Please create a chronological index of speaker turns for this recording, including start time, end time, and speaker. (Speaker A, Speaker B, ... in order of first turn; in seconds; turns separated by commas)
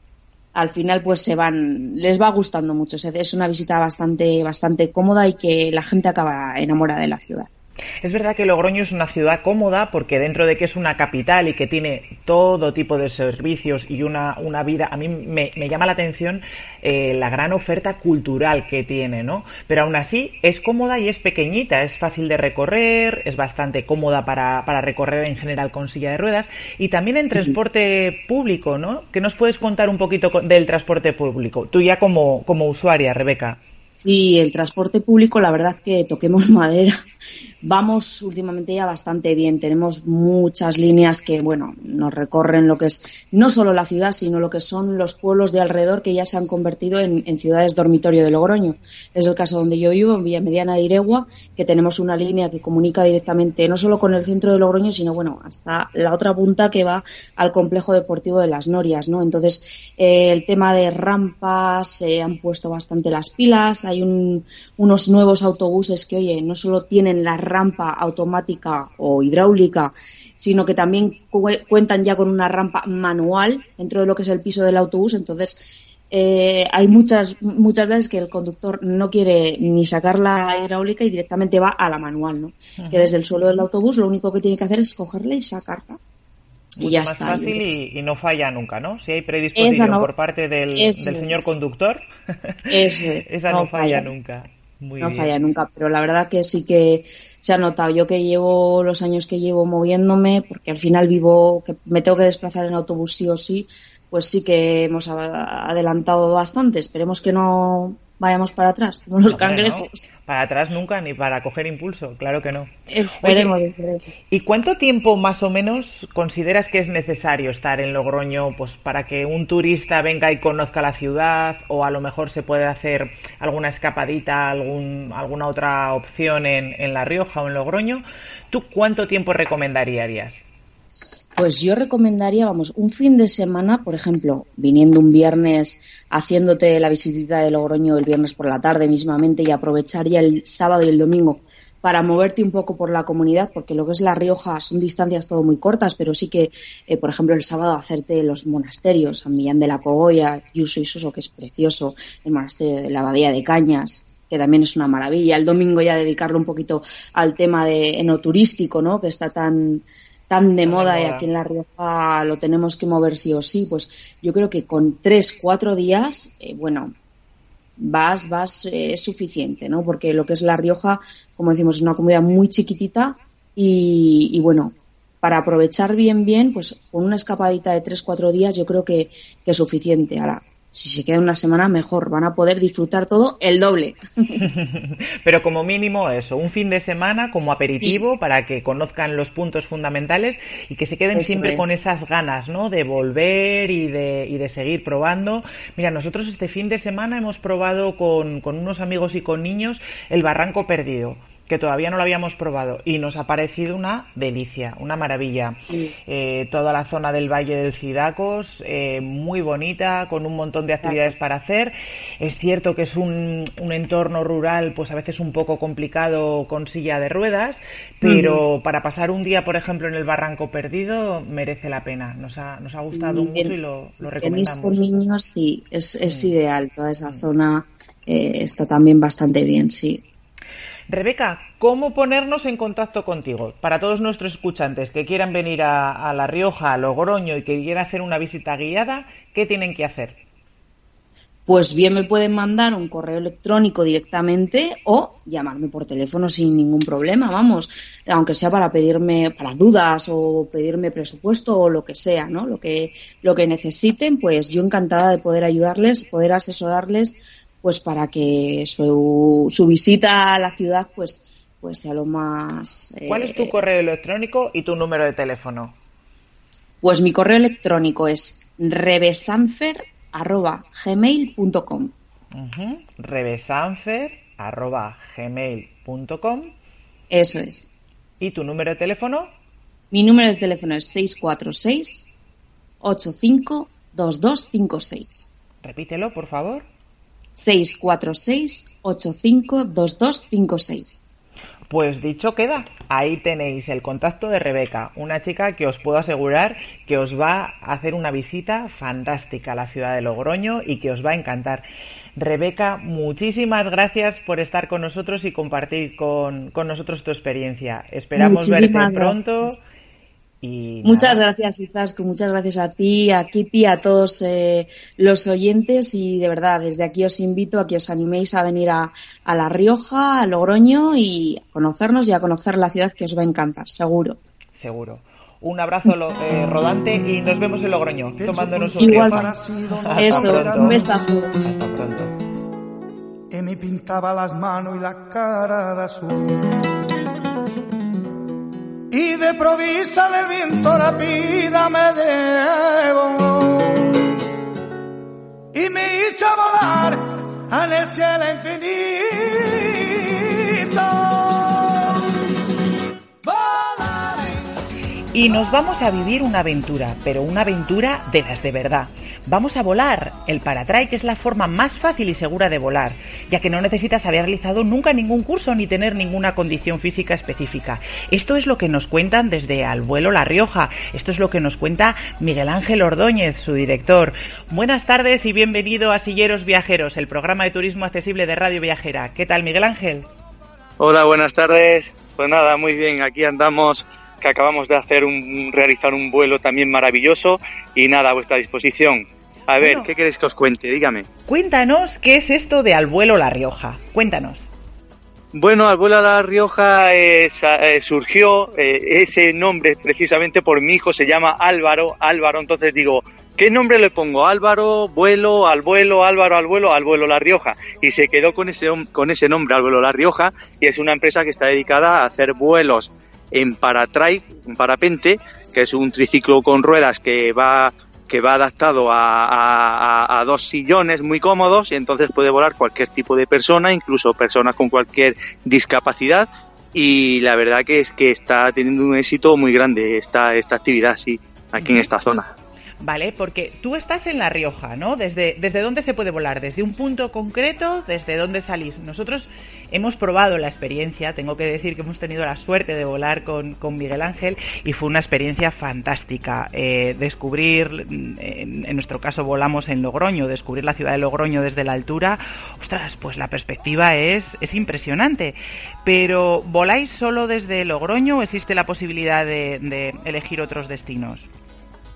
Speaker A: 0.6-7.5, Speaker B: 8.0-33.6, Speaker A: 27.3-27.6, Speaker A: 33.9-37.0, Speaker A: 37.6-86.0, Speaker B: 82.8-83.1, Speaker A: 86.8-87.7, Speaker B: 86.8-92.7, Speaker A: 89.6-90.1, Speaker A: 90.8-91.5, Speaker A: 92.7-94.1, Speaker B: 93.3-95.6, Speaker A: 95.0-110.1, Speaker B: 109.3-113.5, Speaker A: 112.9-114.1, Speaker B: 114.3-130.4, Speaker A: 131.4-166.9, Speaker B: 160.7-161.3, Speaker A: 167.8-184.4, Speaker B: 184.4-224.8, Speaker A: 191.1-191.7, Speaker A: 205.6-205.9, Speaker A: 210.8-211.1, Speaker A: 218.0-218.4, Speaker A: 222.9-230.0, Speaker B: 226.1-226.4, Speaker B: 230.9-240.2, Speaker A: 241.5-263.6, Speaker B: 263.1-265.8, Speaker A: 266.8-271.9, Speaker B: 272.3-276.6, Speaker A: 277.1-277.7, Speaker B: 278.2-279.3, Speaker A: 279.9-282.1, Speaker A: 282.8-285.3, Speaker B: 285.6-286.6, Speaker A: 287.4-291.0, Speaker B: 291.7-301.7, Speaker B: 302.2-309.6, Speaker A: 308.2-309.5, Speaker B: 310.4-311.2, Speaker A: 310.8-324.2, Speaker B: 324.6-330.8, Speaker C: 328.2-330.9, Speaker A: 328.8-329.3, Speaker A: 330.0-331.3, Speaker B: 331.4-332.2, Speaker C: 333.3-336.6, Speaker C: 338.9-343.9, Speaker C: 345.5-352.1, Speaker C: 353.2-354.4, Speaker B: 355.1-380.1, Speaker D: 380.8-391.1, Speaker B: 389.6-389.9, Speaker B: 391.3-394.5, Speaker D: 395.3-432.3, Speaker B: 431.6-431.9, Speaker B: 432.8-461.3